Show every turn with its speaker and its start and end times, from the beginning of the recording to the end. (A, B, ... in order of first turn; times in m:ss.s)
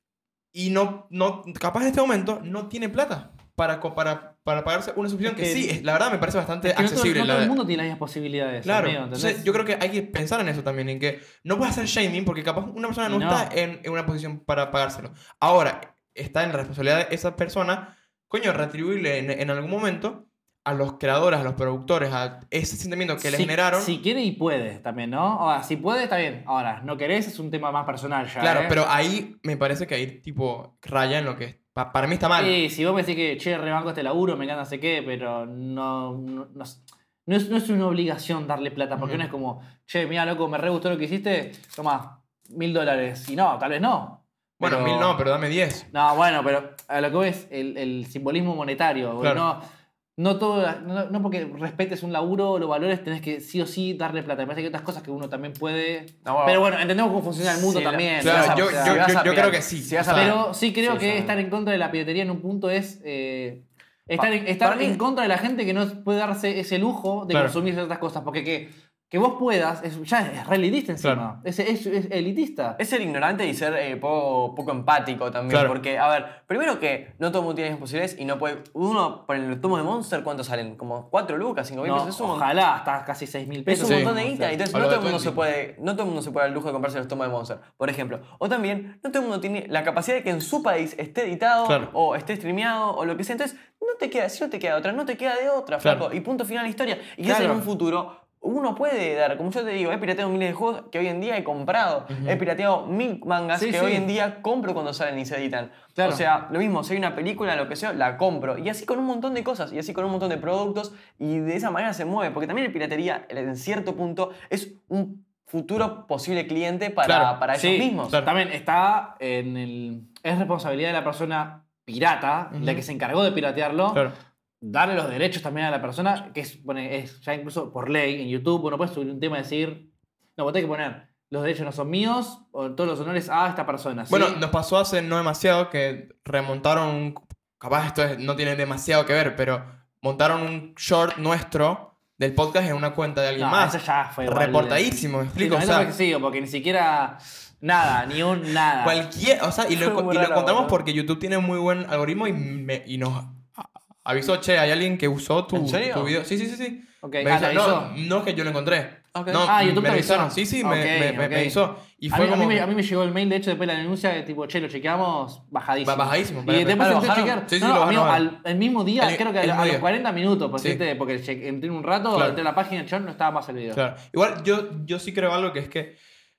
0:00.5-0:07.6 A
0:05.2-0:05.8 B
0:06.6-0:09.6 B
0:08.6-0:24.0 A
0:13.0-0:13.5 B
0:23.2-0:28.8 B
0:28.4-0:32.6 A
0:32.4-0:45.2 B
0:39.0-0:39.2 A
0:44.6-0:45.9 A
0:45.9-0:49.6 B
0:49.2-0:49.4 A
0:50.2-0:59.0 B
0:56.2-0:56.6 C
0:57.4-1:01.4 C
0:58.2-1:00.4 A
1:00.1-1:12.8 B
1:04.2-1:05.0 C
1:07.3-1:07.6 A
1:12.8-1:22.5 C
1:15.5-1:15.8 A
1:21.8-1:24.6 B
1:23.7-1:58.2 C
1:23.8-1:24.1 A
1:24.7-1:25.4 A
1:31.6-1:31.9 A
1:37.2-1:37.7 B
1:42.1-1:42.4 A
1:43.6-1:44.1 B
1:46.0-1:46.2 B
1:57.0-1:57.4 A
1:57.6-2:04.1 B
2:02.5-2:02.9 A
2:04.6-2:14.4 B
2:14.1-2:25.9 A
2:23.4-2:29.0 B
2:28.8-2:42.7 A
2:29.8-2:30.8 C
2:29.9-2:30.5 B
2:35.5-2:36.1 C
2:37.0-2:37.9 B
2:39.1-2:39.5 C
2:39.4-2:41.6 B
2:42.1-2:53.8 B
2:45.8-2:48.3 A
2:46.8-2:47.4 C
2:49.0-2:49.9 A
2:50.6-2:50.8 A
2:52.1-2:52.4 A
2:53.7-2:56.0 A